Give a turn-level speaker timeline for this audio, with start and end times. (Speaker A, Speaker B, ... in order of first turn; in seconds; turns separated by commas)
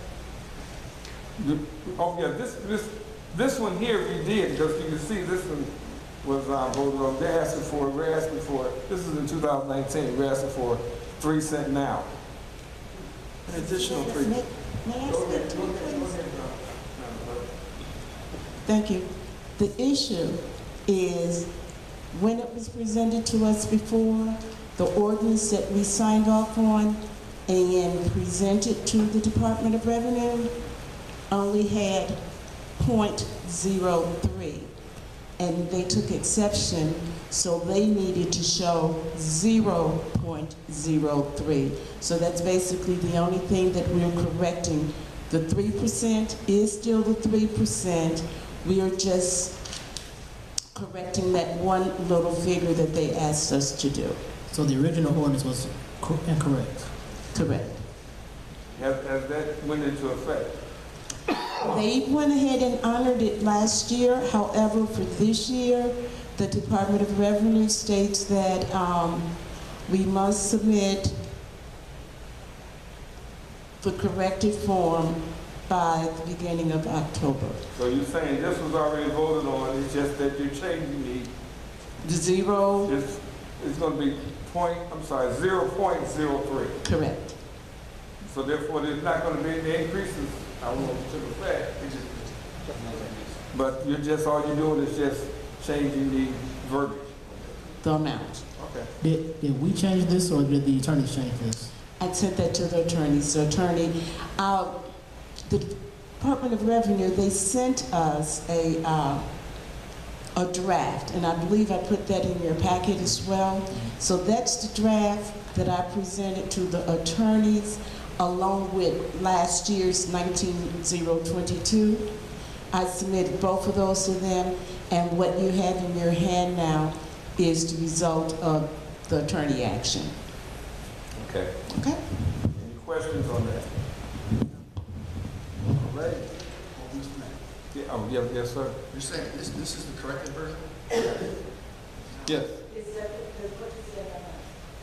Speaker A: 1.4-12.1, Speaker B: 13.5-16.1, Speaker A: 13.5-14.3, Speaker A: 15.1-17.5, Speaker B: 18.6-21.5, Speaker B: 22.1-30.5, Speaker B: 31.3-32.2, Speaker B: 32.8-34.7, Speaker B: 35.4-49.6, Speaker B: 50.7-54.1, Speaker C: 54.5-56.9, Speaker B: 57.3-57.8, Speaker A: 58.7-60.5, Speaker B: 61.6-69.3, Speaker B: 69.8-71.2, Speaker B: 73.8-77.6, Speaker A: 77.7-81.3, Speaker B: 82.0-82.9, Speaker A: 82.8-86.8, Speaker B: 86.8-87.3, Speaker A: 88.3-92.1, Speaker D: 92.8-93.2, Speaker A: 93.5-97.1, Speaker B: 97.8-98.4, Speaker D: 98.6-98.8, Speaker C: 99.0-101.7, Speaker B: 102.0-104.8, Speaker B: 105.5-109.2, Speaker B: 110.3-122.1, Speaker B: 122.7-130.2, Speaker D: 131.2-131.5, Speaker B: 131.7-132.0, Speaker A: 132.5-133.8, Speaker A: 135.8-136.2, Speaker D: 136.8-137.3, Speaker A: 137.7-138.8, Speaker D: 138.9-140.6, Speaker B: 142.7-144.4